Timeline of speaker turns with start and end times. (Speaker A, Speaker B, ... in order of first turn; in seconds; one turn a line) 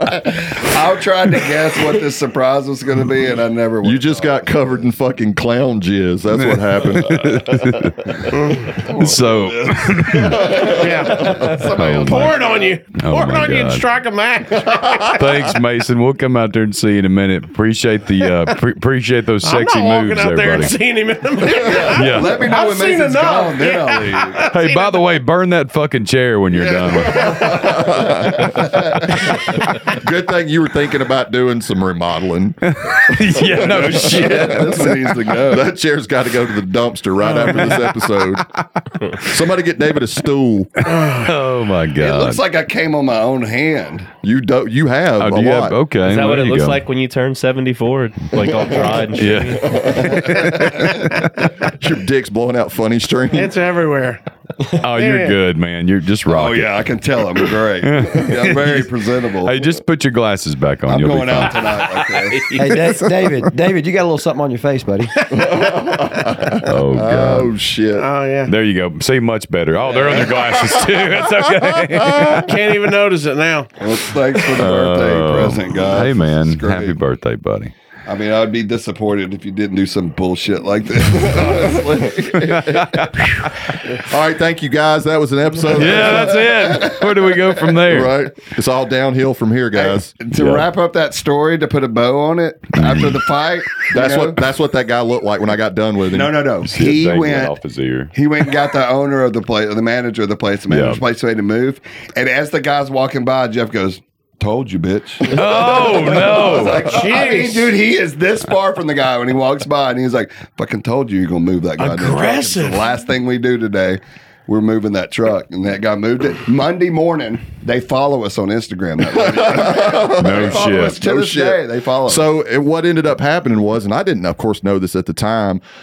Speaker A: 0.2-4.8
Speaker B: 3.8-7.7
Speaker C: 6.5-12.4
Speaker D: 8.4-8.7
Speaker A: 8.7-12.8
Speaker D: 10.6-15.3
Speaker C: 12.9-13.9
Speaker C: 15.1-20.8
Speaker D: 19.4-25.0
Speaker A: 21.5-24.4
Speaker C: 21.8-22.5
Speaker C: 24.5-27.6
Speaker A: 26.5-28.9
Speaker B: 27.3-38.5
Speaker C: 32.7-35.1
Speaker A: 33.5-35.7
Speaker C: 37.2-38.0
Speaker B: 39.2-40.7
Speaker C: 40.8-42.4
Speaker D: 40.9-41.3
Speaker A: 42.0-44.1
Speaker B: 44.2-45.8
Speaker C: 45.2-46.8
Speaker E: 46.0-49.8
Speaker C: 49.1-51.3
Speaker B: 49.3-50.9
Speaker A: 50.6-50.9
Speaker B: 51.6-53.5
Speaker D: 53.3-54.2
Speaker C: 54.8-58.9
Speaker D: 54.9-55.4
Speaker A: 56.3-59.6
Speaker C: 59.4-61.8
Speaker A: 60.9-62.5
Speaker E: 62.1-62.8
Speaker F: 62.5-65.1
Speaker B: 65.3-68.1
Speaker C: 66.6-67.5
Speaker D: 68.0-68.5
Speaker C: 68.5-72.5
Speaker E: 71.2-71.9
Speaker B: 71.9-72.4
Speaker D: 72.4-73.7
Speaker A: 73.8-77.0
Speaker C: 74.5-77.7
Speaker A: 78.1-82.8
Speaker B: 81.4-83.1
Speaker C: 82.4-83.7
Speaker B: 84.0-86.6
Speaker C: 85.7-88.1
Speaker A: 85.8-87.5
Speaker B: 87.8-90.2
Speaker A: 89.7-94.4
Speaker C: 90.3-90.7
Speaker C: 92.7-93.2
Speaker B: 93.9-96.5
Speaker A: 96.1-97.6
Speaker C: 96.7-98.1
Speaker A: 98.1-122.3
Speaker C: 100.7-101.0
Speaker C: 105.3-106.9
Speaker D: 106.3-107.7
Speaker D: 111.8-112.9
Speaker B: 119.2-125.6
Speaker C: 120.1-121.0